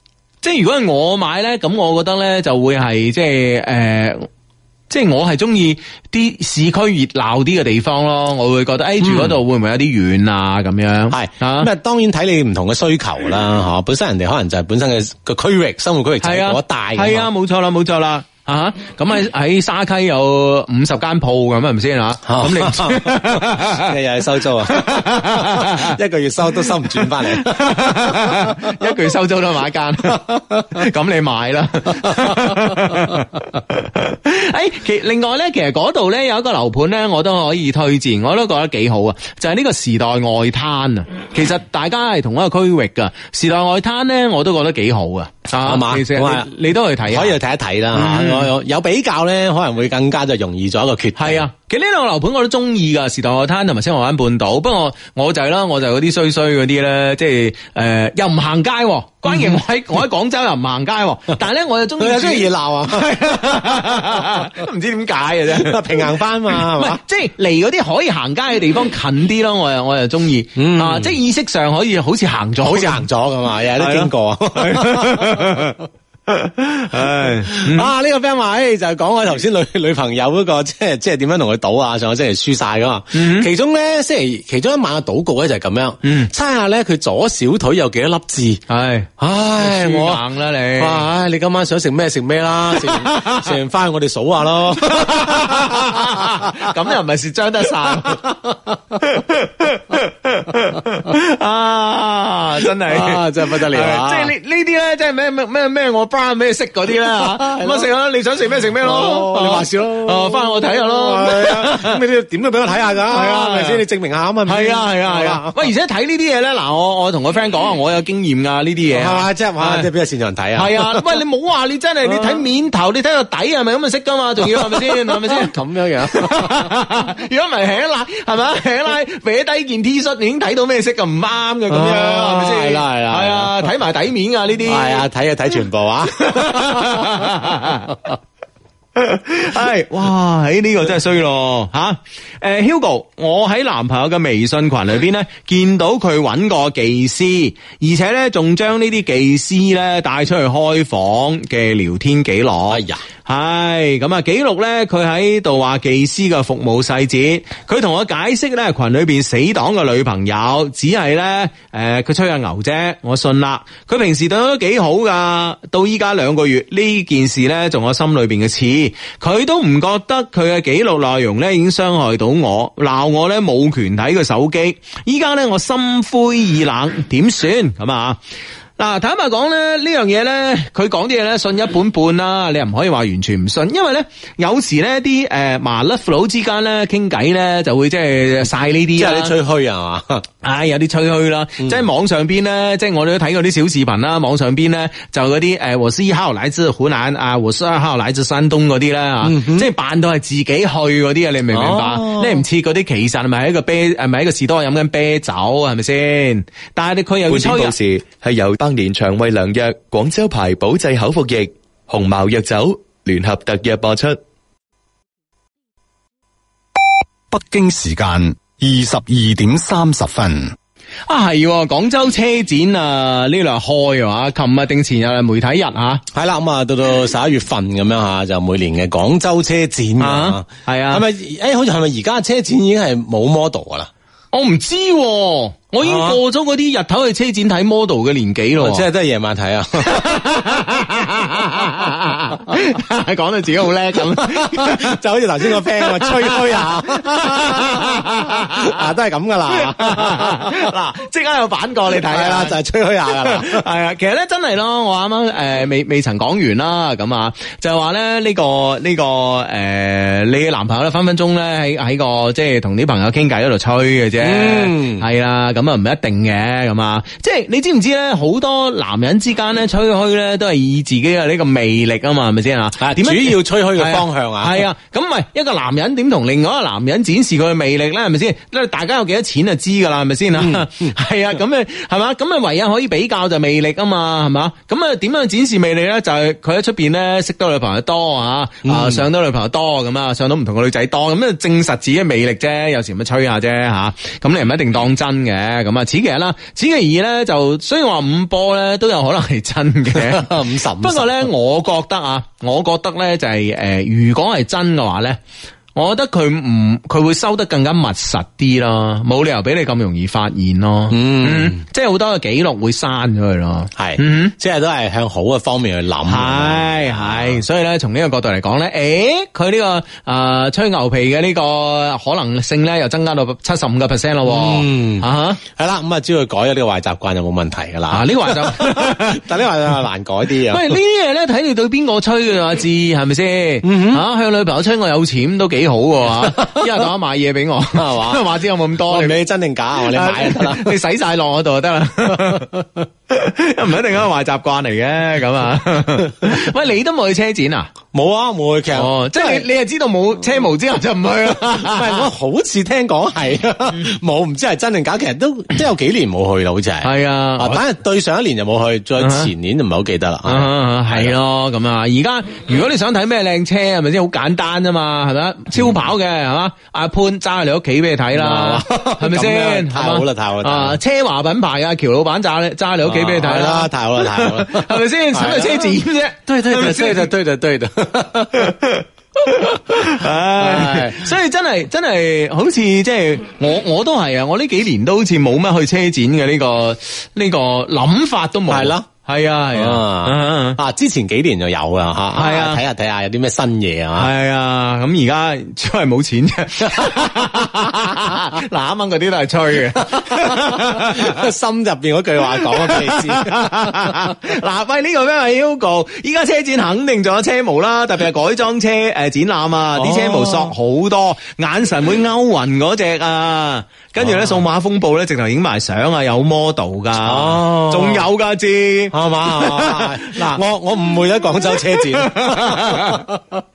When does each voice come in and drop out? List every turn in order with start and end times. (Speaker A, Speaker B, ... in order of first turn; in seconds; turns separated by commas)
Speaker A: 0.4-4.3, Speaker A: 4.9-11.7, Speaker B: 9.0-9.4, Speaker B: 11.1-17.3, Speaker A: 16.2-23.9, Speaker B: 22.3-28.7, Speaker A: 24.6-25.9, Speaker A: 26.8-47.4, Speaker B: 32.1-33.0, Speaker B: 45.6-46.5, Speaker B: 47.1-51.4, Speaker A: 47.9-48.5, Speaker A: 51.1-73.0, Speaker B: 59.3-59.6, Speaker B: 62.0-63.1, Speaker B: 63.9-64.4, Speaker B: 65.5-67.0, Speaker B: 70.5-71.1, Speaker B: 72.6-75.7, Speaker A: 73.8-75.8, Speaker A: 76.3-77.9, Speaker B: 77.0-88.6, Speaker A: 83.1-83.5, Speaker A: 86.0-86.3, Speaker A: 88.7-91.0, Speaker B: 89.2-90.2, Speaker B: 90.8-96.5, Speaker A: 92.7-93.5, Speaker A: 94.8-98.3, Speaker B: 97.9-99.0, Speaker A: 99.0-112.0, Speaker B: 102.9-104.3, Speaker B: 107.0-107.9, Speaker B: 108.8-115.7, Speaker A: 113.1-113.8, Speaker A: 114.5-119.9, Speaker B: 118.9-121.2, Speaker A: 120.5-125.5, Speaker B: 122.0-122.4, Speaker B: 124.4-126.7, Speaker A: 126.1-135.1, Speaker B: 131.7-133.7, Speaker B: 134.7-137.3, Speaker A: 136.2-137.9, Speaker A: 138.9-178.2, Speaker B: 152.7-153.0, Speaker A: 178.8-189.3, Speaker B: 188.9-190.3, Speaker A: 190.4-207.8, Speaker B: 199.2-199.7, Speaker B: 201.5-202.4, Speaker C: 207.3-214.2, Speaker D: 217.3-220.5, Speaker A: 221.1-226.0, Speaker B: 226.1-233.9, Speaker A: 230.0-231.0, Speaker A: 234.3-238.9, Speaker B: 235.8-236.2, Speaker B: 238.6-240.2, Speaker A: 239.8-245.0, Speaker B: 244.2-250.7, Speaker A: 245.6-248.8, Speaker A: 249.5-252.6, Speaker B: 252.1-253.6, Speaker A: 253.1-305.2, Speaker B: 264.2-265.1, Speaker B: 272.8-274.6, Speaker B: 280.4-280.9, Speaker B: 288.6-289.1, Speaker B: 299.9-301.3, Speaker A: 305.7-314.3, Speaker B: 310.9-311.6, Speaker B: 313.8-317.4, Speaker A: 316.1-325.4, Speaker B: 324.3-330.7, Speaker A: 327.9-329.2, Speaker A: 330.5-339.2, Speaker B: 333.6-334.0, Speaker B: 336.1-336.7, Speaker B: 337.7-338.2, Speaker B: 338.9-340.8, Speaker A: 339.8-347.7, Speaker B: 342.1-342.6, Speaker B: 347.9-349.4, Speaker A: 348.7-352.1, Speaker B: 351.6-361.1, Speaker A: 356.8-357.6, Speaker A: 359.0-359.3, Speaker A: 360.3-377.1, Speaker B: 368.1-370.8, Speaker B: 372.8-378.6, Speaker A: 379.2-390.6, Speaker B: 379.8-381.1, Speaker B: 388.5-388.9, Speaker B: 389.6-394.1, Speaker A: 392.1-392.6, Speaker A: 393.9-401.2, Speaker B: 399.9-404.1, Speaker A: 402.4-420.4, Speaker B: 409.7-410.5, Speaker B: 414.0-414.4, Speaker B: 417.0-418.1, Speaker B: 418.9-423.3, Speaker A: 421.4-423.1